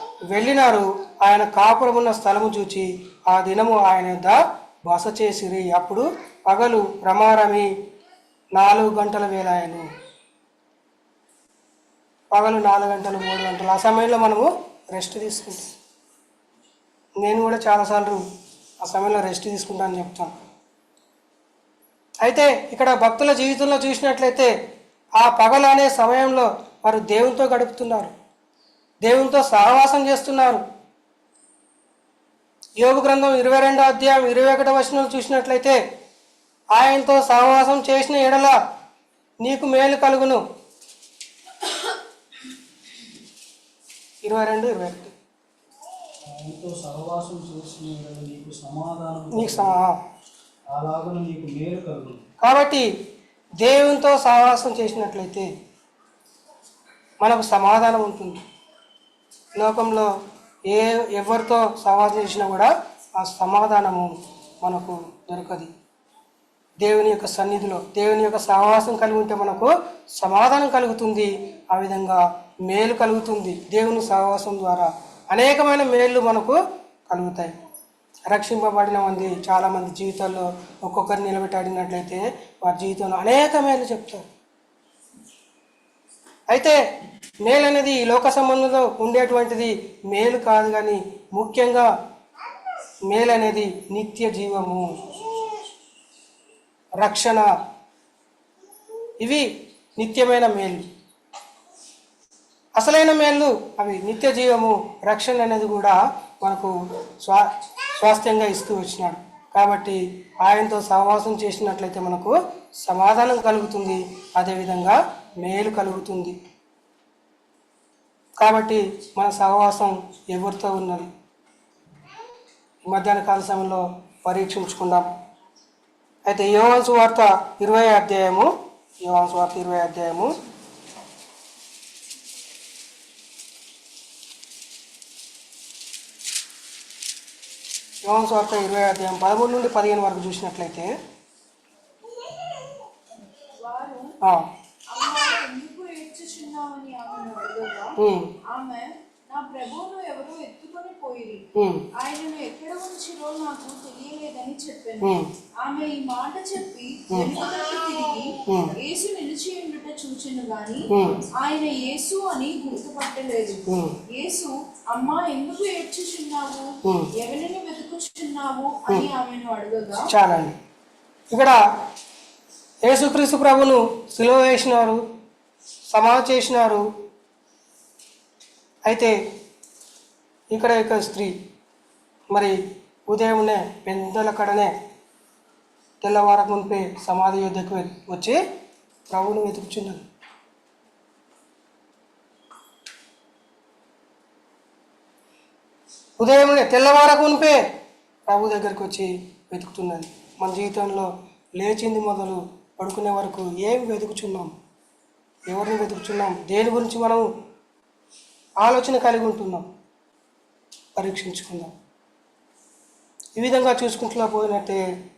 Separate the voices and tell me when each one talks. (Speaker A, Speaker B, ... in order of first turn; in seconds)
Speaker A: 0.3-7.7, 8.6-9.9, 12.3-15.7, 17.2-18.2, 18.8-20.3, 22.2-24.5, 25.2-28.1, 29.0-30.6, 32.8-35.8, 36.7-38.6, 39.4-40.4, 44.2-45.1, 49.3-50.0, 52.4-52.9, 53.6-55.5, 57.2-58.4, 59.6-60.1, 60.7-65.7, 66.8-77.5, 78.3-84.2, 86.5-86.8, 87.5-91.9, 93.1-95.0, 97.0-97.5, 99.2-100.8, 102.8-116.4, 118.4-121.1, 122.9-125.1, 126.3-128.5, 129.0-130.3, 138.0-140.9, 144.2-144.5, 148.0-148.3, 151.6-151.9, 155.0-155.3, 158.5-158.8, 160.9-161.2, 163.7-164.0, 166.8-167.1, 170.1-170.6, 171.3-171.6, 172.8-175.0, 175.9-176.9, 178.9-179.2, 180.5-181.3, 182.3-184.8, 186.0-188.4, 189.1-190.1, 196.2-197.6, 198.3-204.5, 205.5-207.3, 208.6-209.7, 211.0-211.7, 213.4-214.8
Speaker B: 46.3-49.8, 50.7-52.2
Speaker C: 143.6-144.2, 144.9-170.1